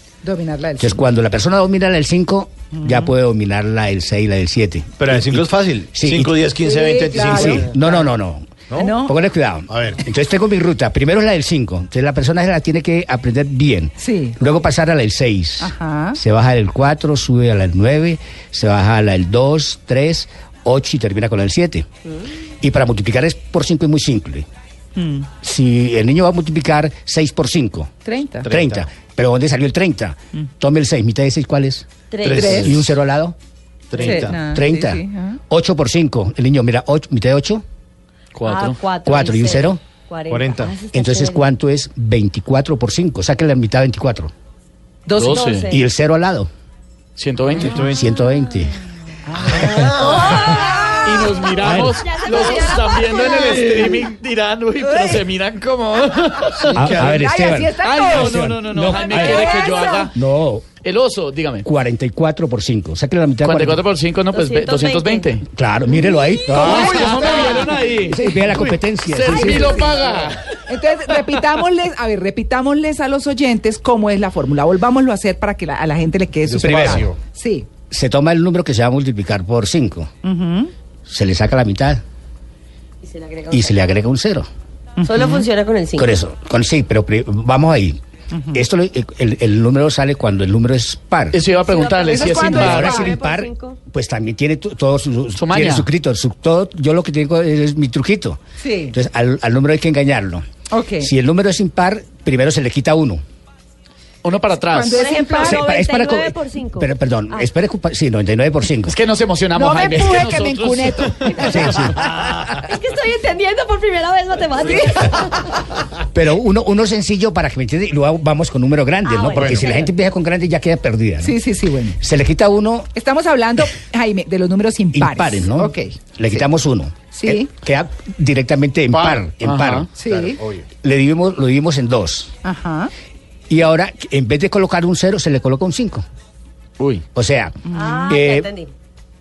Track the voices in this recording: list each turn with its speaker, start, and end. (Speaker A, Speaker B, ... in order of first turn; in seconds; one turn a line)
Speaker A: 0.2-1.0
Speaker B: 0.8-6.4
Speaker A: 2.7-3.1
Speaker C: 5.0-7.7
Speaker A: 6.6-8.1
Speaker B: 7.2-21.9
Speaker A: 8.7-9.1
Speaker C: 9.7-10.0
Speaker A: 14.0-14.4
Speaker A: 15.6-16.2
Speaker B: 22.6-24.5
Speaker A: 24.9-25.3
Speaker B: 25.4-27.9
Speaker A: 28.0-28.5
Speaker C: 28.4-28.9
Speaker B: 28.5-31.9
Speaker D: 32.1-32.6
Speaker C: 32.2-32.9
Speaker A: 32.3-32.7
Speaker B: 32.4-33.4
Speaker C: 33.9-34.4
Speaker A: 33.9-35.4
Speaker B: 34.0-37.6
Speaker E: 38.3-38.8
Speaker D: 38.4-41.4
Speaker B: 39.0-39.8
Speaker C: 40.3-40.7
Speaker B: 40.9-44.3
Speaker A: 45.0-45.5
Speaker E: 45.2-45.7
Speaker D: 45.2-45.8
Speaker B: 45.7-46.5
Speaker E: 47.1-48.0
Speaker C: 47.6-48.0
Speaker B: 47.8-48.8
Speaker E: 49.3-56.9
Speaker C: 49.5-50.5
Speaker B: 49.6-49.9
Speaker D: 50.0-53.9
Speaker B: 51.6-52.0
Speaker A: 54.8-55.2
Speaker C: 56.6-57.2
Speaker B: 56.7-59.5
Speaker A: 57.0-58.6
Speaker E: 57.8-60.1
Speaker D: 59.0-60.1
Speaker A: 59.1-59.9
Speaker B: 60.1-60.6
Speaker E: 60.8-61.6
Speaker B: 61.6-63.8
Speaker E: 63.4-65.4
Speaker D: 64.3-65.3
Speaker B: 65.5-69.8
Speaker E: 66.5-70.6
Speaker A: 66.5-67.7
Speaker C: 66.8-67.3
Speaker A: 69.3-69.9
Speaker A: 70.7-77.7
Speaker C: 76.5-77.2
Speaker B: 76.6-77.1
Speaker B: 77.9-80.1
Speaker A: 80.2-80.7
Speaker B: 81.1-82.0
Speaker D: 83.0-83.7
Speaker B: 83.5-84.5
Speaker A: 85.0-85.5
Speaker D: 85.0-86.1
Speaker B: 86.0-88.0
Speaker A: 88.3-88.6
Speaker B: 88.5-91.4
Speaker E: 91.3-93.0
Speaker D: 91.4-93.8
Speaker A: 92.0-93.1
Speaker B: 92.5-100.4
Speaker E: 95.4-95.9
Speaker A: 98.6-99.0
Speaker A: 100.7-101.1
Speaker B: 101.0-103.2
Speaker E: 104.2-105.1
Speaker A: 104.7-105.6
Speaker D: 104.8-107.5
Speaker B: 105.4-109.0
Speaker E: 108.8-112.0
Speaker A: 109.5-112.0
Speaker B: 111.5-112.0
Speaker D: 112.5-115.5
Speaker A: 114.7-115.1
Speaker B: 116.1-121.4
Speaker D: 119.0-119.9
Speaker A: 121.2-122.0
Speaker B: 121.9-122.9
Speaker A: 122.9-125.9
Speaker B: 124.9-129.9
Speaker A: 127.1-127.5
Speaker C: 128.9-129.3
Speaker E: 129.4-129.9
Speaker A: 129.9-130.4
Speaker C: 130.1-130.7
Speaker B: 130.8-132.3
Speaker A: 132.4-132.9
Speaker B: 133.5-136.0
Speaker E: 136.8-137.0
Speaker B: 137.1-138.5
Speaker A: 137.6-138.2
Speaker D: 137.7-138.7